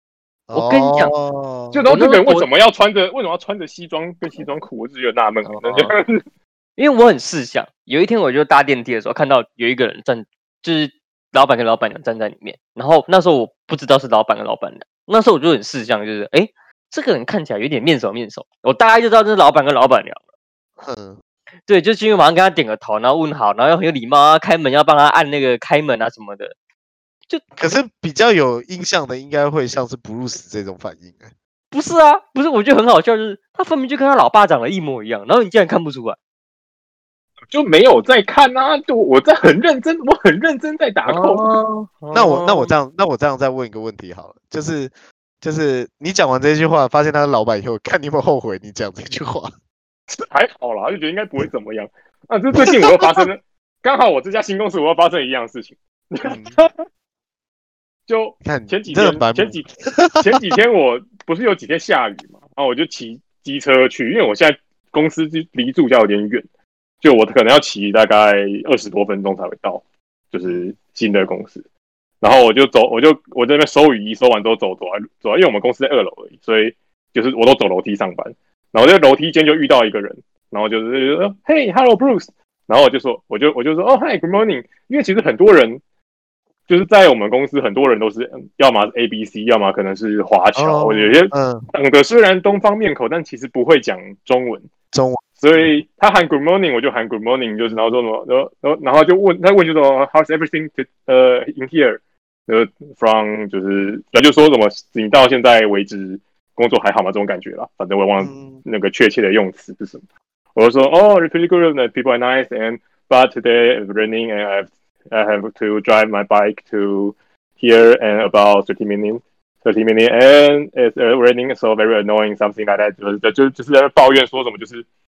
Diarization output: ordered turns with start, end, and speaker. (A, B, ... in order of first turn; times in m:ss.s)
0:00.5-0:01.9 A
0:00.5-0:01.1 B
0:01.7-0:06.2 C
0:01.9-0:02.4 B
0:05.4-0:05.9 B
0:06.8-0:20.2 B
0:20.8-0:21.2 A
0:21.7-0:26.5 B
0:27.5-0:31.3 A
0:31.7-0:36.2 B
0:37.5-0:41.4 C
0:41.1-0:42.7 B
0:42.1-0:49.5 A
0:50.1-0:56.8 C
0:52.6-0:52.9 A
0:56.2-0:56.6 A
0:58.1-0:59.7 C
0:58.4-1:00.5 A
1:00.2-1:06.4 C
1:07.0-1:11.6 C
1:10.4-1:10.7 A
1:12.2-1:25.8 C
1:26.7-1:34.7 C
1:30.5-1:31.7 A
1:34.9-1:35.8 A
1:35.4-1:50.0 C
1:48.2-1:48.6 A
1:50.5-2:04.8 C